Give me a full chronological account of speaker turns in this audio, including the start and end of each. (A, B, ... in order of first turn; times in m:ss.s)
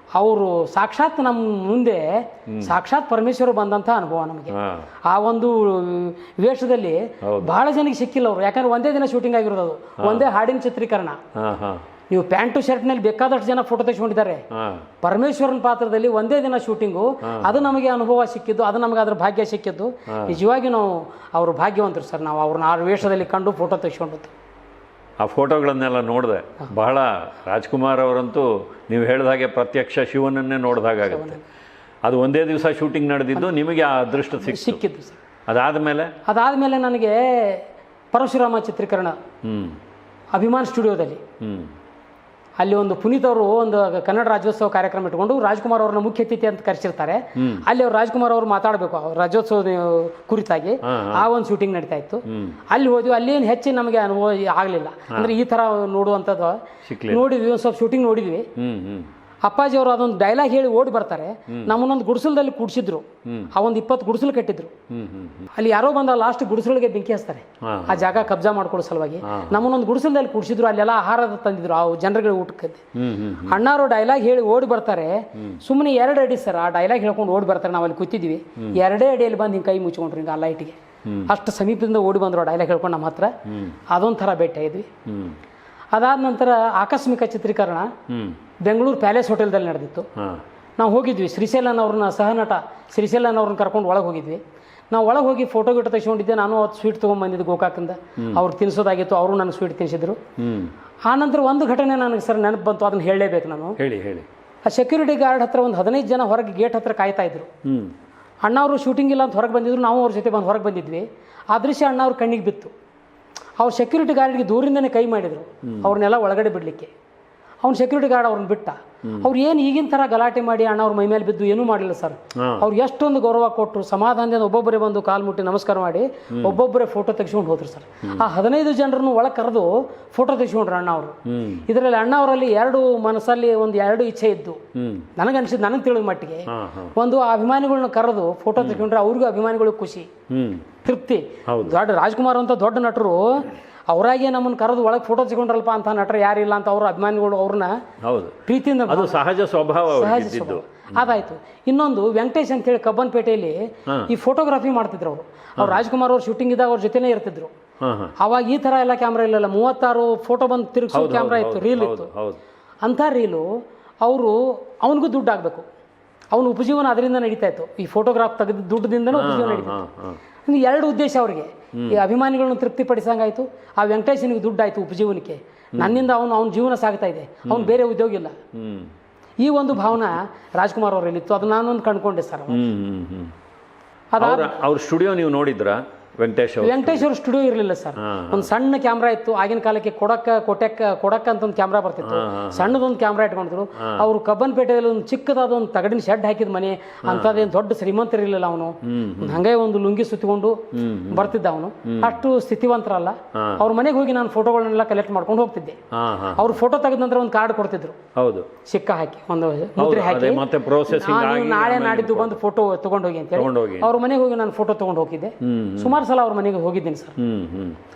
0:00.2-0:04.5 A
0:04.5-0:04.9 B
0:05.1-0:11.2 A
0:07.2-0:07.5 B
0:10.0-0:10.2 B
0:11.4-0:11.8 B
0:12.1-0:14.4 A
0:14.5-0:14.8 B
0:15.0-0:24.3 A
0:20.1-0:20.3 B
0:25.2-0:31.4 B
0:31.0-0:31.4 A
0:32.0-0:34.8 B
0:34.3-0:35.2 A
0:35.5-0:36.1 B
0:36.2-0:39.2 A
0:39.4-0:39.8 B
0:40.3-0:41.2 A
0:41.4-0:41.7 B
0:42.6-0:58.5 A
0:47.4-0:47.6 B
0:50.8-0:51.2 B
0:52.3-0:52.6 B
0:56.8-0:57.2 B
0:58.6-0:59.1 B
0:59.4-1:04.7 A
1:04.9-1:05.5 B
1:05.5-1:12.8 A
1:07.6-1:08.0 B
1:09.2-1:09.5 B
1:13.0-1:13.6 B
1:13.4-1:20.8 A
1:21.3-1:23.3 A
1:23.9-1:24.9 A
1:25.1-1:25.4 B
1:25.9-1:27.9 A
1:28.1-1:28.4 B
1:28.6-1:30.1 A
1:30.8-1:40.2 A
1:40.4-1:40.7 B
1:41.1-1:43.8 A
1:43.8-1:44.3 B
1:44.6-1:47.5 A
1:47.6-1:47.9 B
1:48.4-1:52.7 A
1:53.6-1:56.9 A
1:57.6-2:11.1 A
2:02.4-2:02.6 B
2:06.3-2:06.6 B
2:11.3-2:11.6 B
2:11.7-2:14.6 A
2:14.8-2:15.1 B
2:15.2-2:20.1 A
2:16.5-2:16.9 B
2:20.3-2:20.6 B
2:20.8-2:27.7 A
2:21.5-2:21.8 B
2:28.0-2:31.1 B
2:28.4-2:29.2 A
2:29.9-2:37.5 A
2:37.8-2:38.1 B
2:38.2-2:42.1 A
2:40.9-2:42.4 B
2:42.8-2:43.4 A
2:44.0-2:45.6 A
2:46.3-2:49.8 A
2:49.1-2:50.2 B
2:50.4-2:58.3 A
2:57.5-2:57.7 B
2:58.5-2:58.9 B
2:59.4-3:02.6 A
3:02.5-3:03.3 B
3:04.1-3:04.6 A
3:04.2-3:07.1 B
3:06.6-3:25.8 A
3:08.0-3:08.5 B
3:12.0-3:12.7 B
3:17.0-3:17.5 B
3:18.8-3:19.4 B
3:20.7-3:21.3 B
3:23.3-3:23.6 B
3:25.9-3:26.6 B
3:26.3-3:28.0 A
3:28.2-3:28.5 B
3:28.7-3:37.2 A
3:29.8-3:32.4 B
3:33.3-3:33.9 B
3:35.4-3:36.0 B
3:37.2-3:37.8 B